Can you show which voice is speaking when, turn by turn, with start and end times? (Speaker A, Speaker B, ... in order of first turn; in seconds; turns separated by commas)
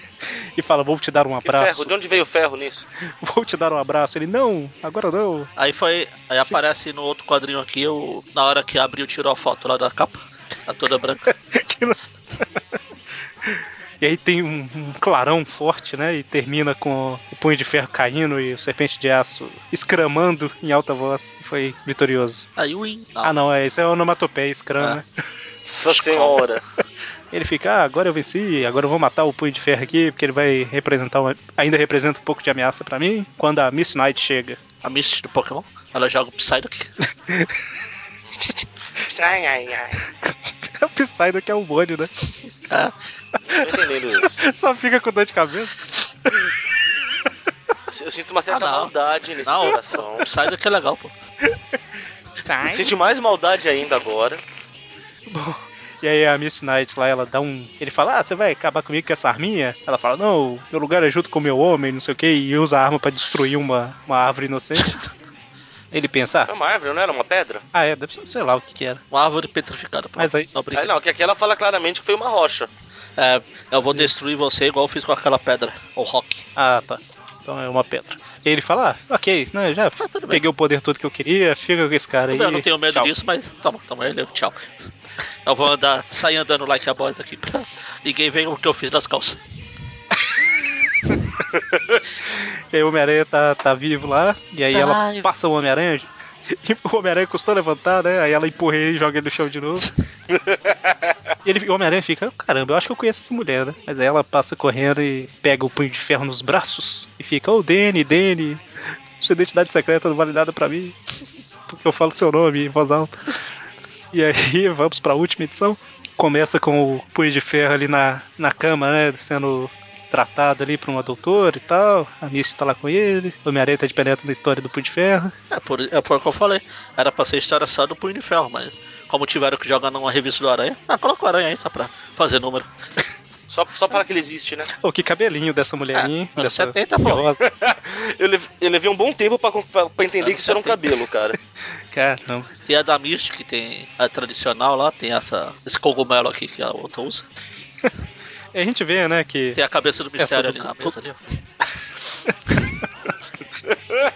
Speaker A: 0.2-1.9, Speaker B: 1.4-2.8, Speaker A: 3.0-5.5, Speaker C: 5.6-11.3, Speaker A: 11.3-12.6, Speaker A: 13.4-22.4, Speaker C: 22.6-23.3, Speaker A: 23.2-25.0, Speaker B: 25.7-26.6, Speaker A: 27.3-34.6, Speaker C: 34.8-36.9, Speaker A: 37.3-37.5, Speaker B: 39.0-40.0, Speaker A: 40.2-42.3, Speaker B: 43.5-44.4, Speaker A: 44.3-45.7, Speaker B: 47.9-50.2, Speaker C: 48.5-51.1, Speaker A: 52.4-52.9, Speaker B: 52.6-54.4, Speaker A: 55.3-65.0, Speaker A: 65.9-66.5, Speaker B: 66.5-67.6, Speaker A: 67.7-69.0, Speaker C: 69.1-70.9, Speaker A: 70.2-70.5, Speaker B: 70.7-72.7, Speaker C: 73.2-76.5, Speaker A: 76.5-83.1, Speaker C: 80.0-80.4, Speaker C: 82.3-84.7, Speaker C: 85.4-89.4, Speaker A: 92.3-99.9, Speaker C: 94.7-95.3, Speaker B: 100.3-101.1, Speaker A: 101.4-108.6, Speaker A: 109.2-111.0, Speaker A: 111.7-113.3, Speaker A: 114.1-125.3, Speaker C: 125.5-132.7, Speaker B: 133.5-134.7, Speaker A: 134.7-137.5, Speaker C: 135.9-137.2, Speaker B: 137.5-141.4, Speaker C: 140.2-140.8, Speaker A: 141.9-142.5, Speaker C: 142.7-147.2, Speaker A: 148.5-149.6, Speaker C: 149.5-151.2, Speaker A: 150.2-150.9, Speaker A: 152.2-152.8